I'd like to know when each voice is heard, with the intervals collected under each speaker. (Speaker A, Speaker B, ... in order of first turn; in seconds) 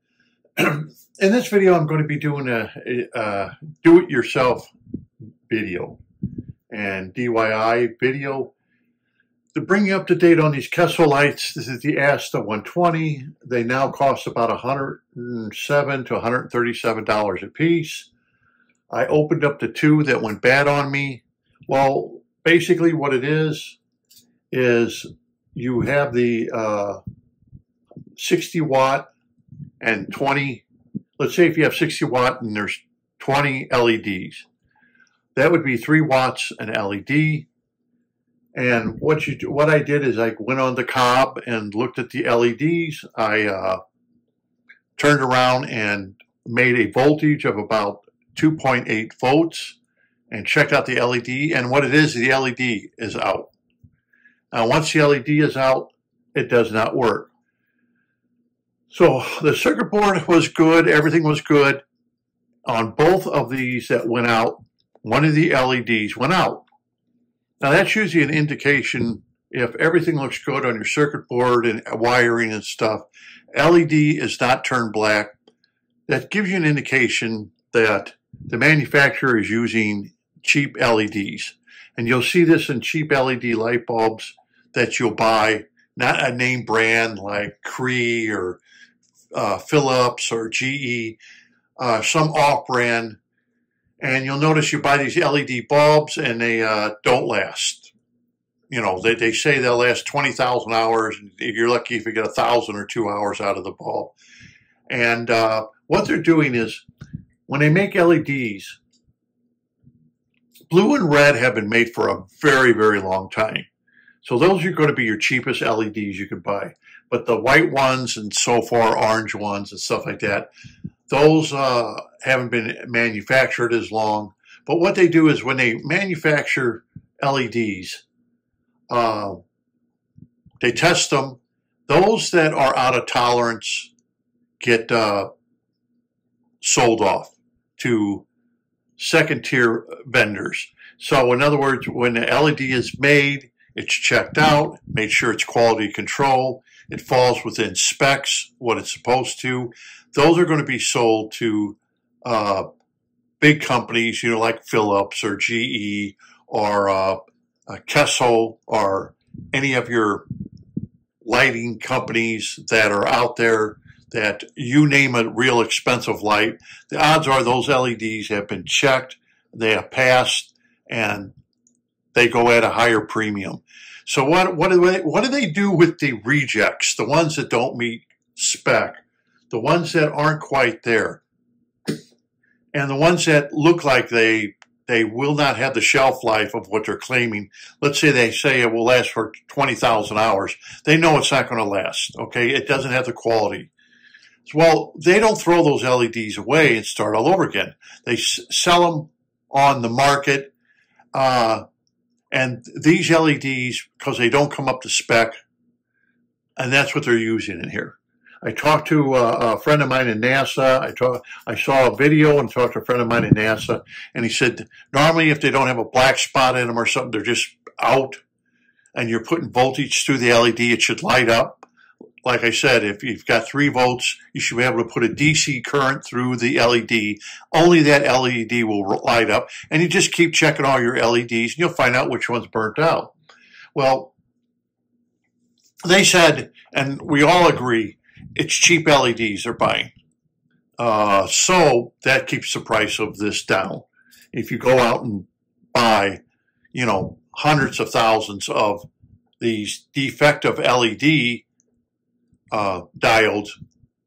Speaker A: 0.6-4.7, 5.5-6.0, 6.7-8.5, 9.5-18.1, 18.9-23.8, 24.5-27.0, 28.2-29.1, 29.8-30.6, 31.2-34.5, 35.3-37.5, 38.5-43.8, 45.0-49.8, 50.3-53.5, 54.5-57.3, 58.9-61.8, 62.6-66.7, 67.6-75.3, 76.1-88.6, 89.3-91.2, 91.8-93.2, 94.0-97.9, 98.7-104.2, 104.9-106.8, 107.5-108.8, 110.7-113.7, 114.2-120.5, 121.1-128.0, 128.9-129.4, 130.6-133.9, 134.6-135.3, 136.6-138.2, 139.0-152.7, 153.4-160.2, 161.2-171.3, 172.1-179.0, 179.5-181.2, 182.7-193.7, 194.4-200.5, 201.1-201.6, 202.3-205.3, 206.6-218.2, 218.9-221.7, 222.2-233.1, 233.8-234.1, 235.8-239.9, 240.8-246.2, 246.7-248.9, 249.4-251.4, 252.5-253.5